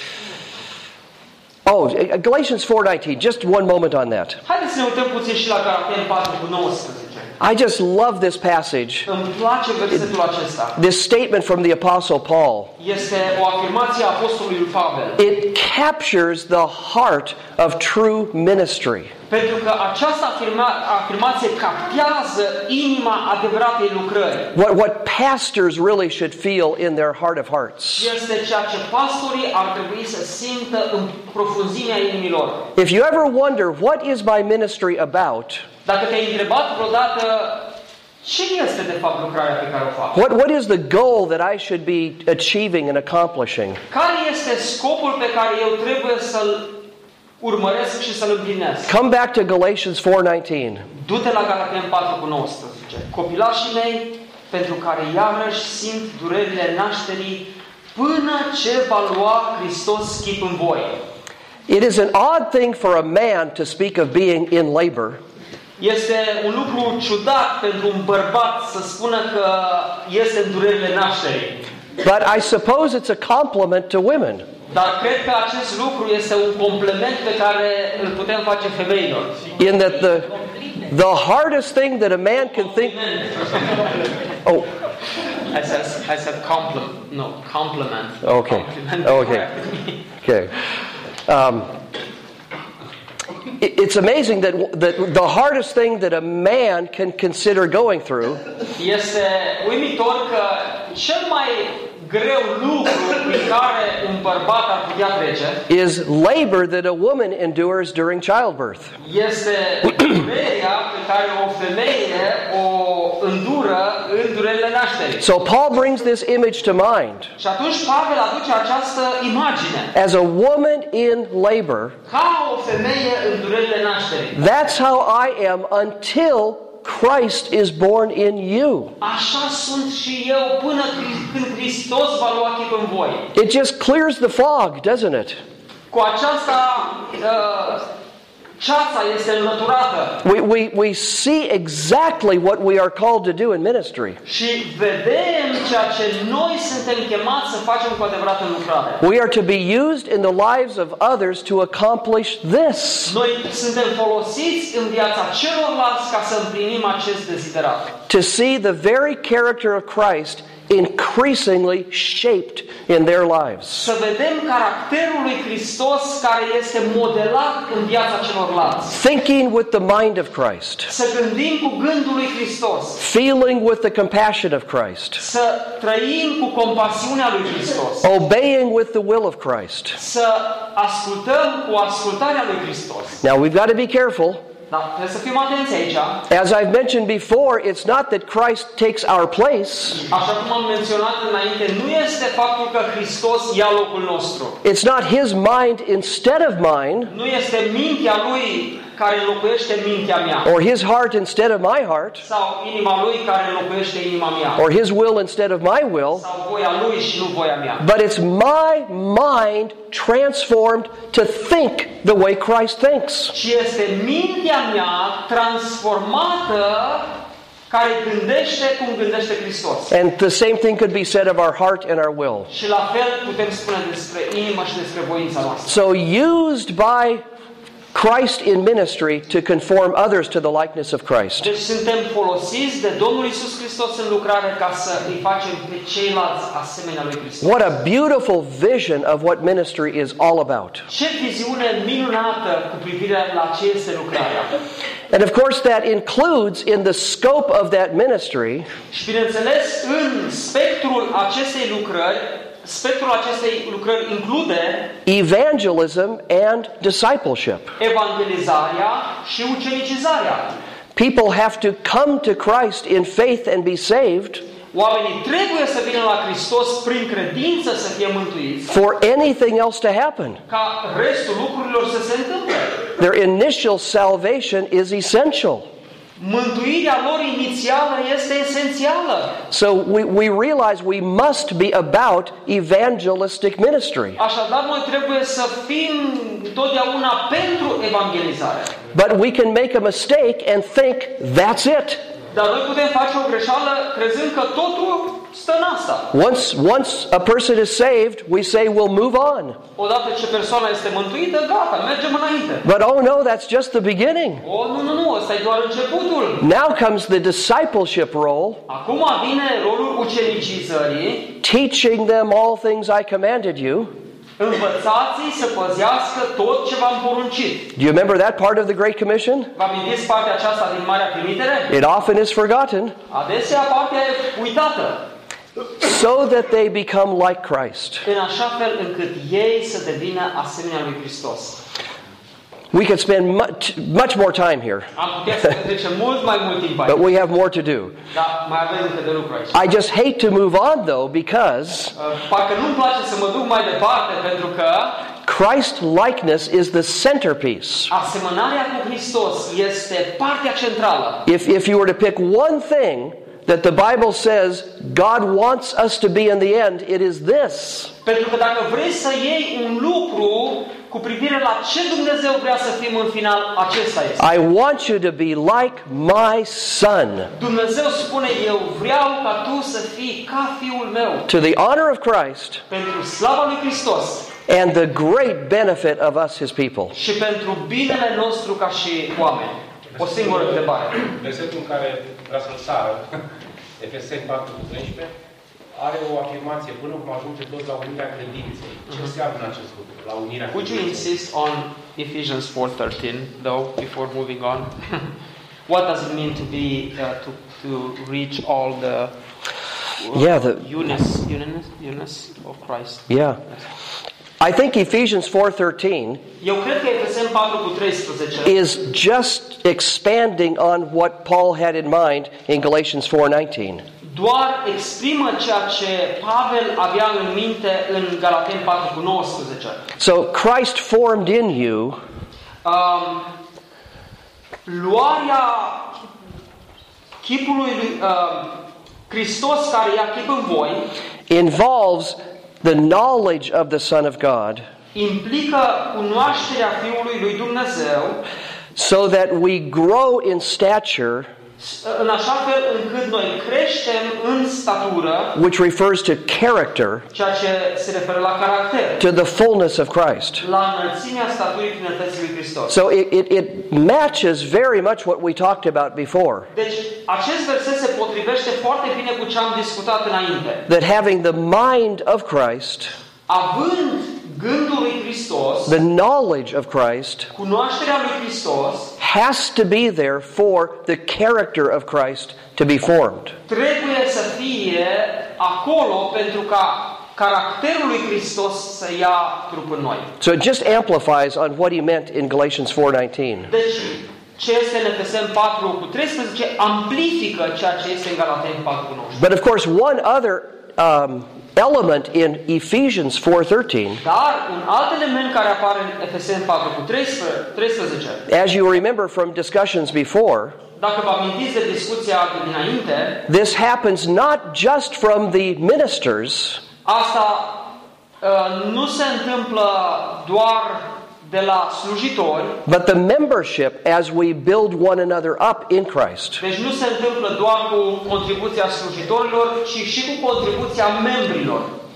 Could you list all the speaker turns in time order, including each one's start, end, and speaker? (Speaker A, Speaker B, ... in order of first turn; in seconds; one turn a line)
Speaker A: 1.6-4.4
Speaker B: 4.4-7.3
Speaker A: 7.4-9.1
Speaker B: 9.1-10.8
Speaker A: 10.8-12.7
Speaker B: 12.8-15.2
Speaker A: 15.2-19.1
Speaker B: 19.3-24.5
Speaker A: 24.5-28.1
Speaker B: 27.9-32.7
Speaker A: 32.8-35.6
Speaker B: 35.8-40.2
Speaker A: 40.1-43.8
Speaker B: 43.9-46.8
Speaker B: 47.4-48.9
Speaker A: 48.9-50.9
Speaker B: 50.9-61.0
Speaker A: 61.7-65.2
Speaker B: 65.8-71.6
Speaker A: 72.0-74.5
Speaker B: 74.7-79.5
Speaker A: 79.6-83.0
Speaker B: 82.3-84.1
Speaker B: 85.5-90.0
Speaker A: 88.2-89.5
Speaker A: 90.2-90.5
Speaker A: 91.3-91.7
Speaker A: 93.6-98.4
Speaker B: 98.8-105.6
Speaker A: 105.7-108.9
Speaker B: 109.0-115.2
Speaker A: 115.2-117.3
Speaker B: 117.4-119.9
Speaker A: 119.9-122.0
Speaker B: 122.1-124.4
Speaker A: 124.3-128.9
Speaker B: 129.0-133.3
Speaker A: 133.3-135.4
Speaker B: 135.9-137.9
Speaker B: 138.6-140.2
Speaker A: 140.2-144.2
Speaker B: 144.2-149.0
Speaker A: 149.0-153.1
Speaker B: 153.1-157.9
Speaker A: 158.1-163.9
Speaker B: 163.7-169.0
Speaker A: 168.9-170.9
Speaker B: 170.9-173.0
Speaker A: 173.0-175.2
Speaker B: 175.2-178.1
Speaker A: 178.0-180.0
Speaker B: 179.9-183.2
Speaker A: 183.2-184.4
Speaker B: 184.7-186.2
Speaker A: 186.3-190.0
Speaker B: 190.0-194.6
Speaker A: 194.6-197.1
Speaker B: 197.1-200.5
Speaker A: 200.4-202.2
Speaker B: 202.2-204.6
Speaker A: 204.6-206.2
Speaker B: 206.1-207.8
Speaker A: 207.8-213.3
Speaker B: 213.3-217.1
Speaker B: 217.7-219.9
Speaker A: 219.9-222.5
Speaker B: 222.5-225.8
Speaker A: 225.7-227.2
Speaker A: 227.9-231.5
Speaker B: 231.4-237.6
Speaker A: 237.4-240.8
Speaker B: 240.9-244.5
Speaker A: 245.1-248.7
Speaker B: 248.9-254.9
Speaker A: 255.1-257.7
Speaker B: 257.8-260.6
Speaker A: 260.9-264.4
Speaker B: 264.7-268.7
Speaker A: 268.7-270.4
Speaker B: 270.5-272.8
Speaker A: 273.0-275.7
Speaker B: 276.2-279.4
Speaker A: 279.5-284.2
Speaker B: 284.2-288.7
Speaker A: 288.9-292.1
Speaker B: 292.3-296.1
Speaker A: 296.1-299.6
Speaker B: 299.8-302.6
Speaker A: 302.6-304.4
Speaker B: 304.4-306.4
Speaker A: 306.4-308.6
Speaker B: 308.7-311.3
Speaker A: 311.4-313.9
Speaker B: 314.4-317.7
Speaker A: 317.8-319.5
Speaker B: 319.5-321.7
Speaker A: 321.7-322.9
Speaker B: 323.1-325.0
Speaker A: 325.8-328.0
Speaker B: 328.0-331.6
Speaker A: 332.7-334.9
Speaker B: 334.9-337.1
Speaker A: 336.9-338.0
Speaker B: 338.1-339.6
Speaker A: 339.5-341.9
Speaker B: 341.9-345.0
Speaker A: 345.2-347.9
Speaker B: 347.9-351.2
Speaker A: 351.2-357.9
Speaker B: 358.0-364.2
Speaker A: 364.2-367.3
Speaker B: 367.3-371.3
Speaker A: 371.3-372.6
Speaker B: 372.7-374.3
Speaker A: 374.5-376.9
Speaker B: 376.9-381.0
Speaker C: 379.9-383.0
Speaker C: 383.8-385.1
Speaker C: 385.7-391.1
Speaker B: 390.5-395.1
Speaker B: 395.7-399.1
Speaker B: 400.0-403.6
Speaker A: 400.1-400.6
Speaker A: 403.1-403.4
Speaker A: 404.4-406.2
Speaker B: 406.4-408.5
Speaker A: 408.4-413.8
Speaker B: 414.0-419.8
Speaker A: 420.0-422.0
Speaker B: 422.6-423.3
Speaker B: 424.6-425.9
Speaker B: 427.2-428.6
Speaker B: 429.1-430.9
Speaker A: 431.3-434.6
Speaker B: 434.9-438.2
Speaker A: 438.8-441.3
Speaker B: 441.6-445.4
Speaker A: 445.3-447.1
Speaker B: 447.1-449.0
Speaker A: 449.0-450.4
Speaker B: 450.4-452.7
Speaker A: 452.7-456.5
Speaker B: 456.5-460.6
Speaker A: 460.7-462.9
Speaker B: 463.3-465.8
Speaker A: 465.7-467.3
Speaker B: 467.3-468.9
Speaker A: 469.0-473.3
Speaker B: 473.5-480.1
Speaker A: 480.2-483.5
Speaker B: 483.5-489.2
Speaker A: 489.2-494.0
Speaker B: 494.0-498.2
Speaker A: 498.3-500.6
Speaker B: 500.8-503.2
Speaker A: 503.3-506.6
Speaker B: 506.8-507.7
Speaker B: 508.2-512.6
Speaker A: 512.6-516.4
Speaker B: 516.4-521.7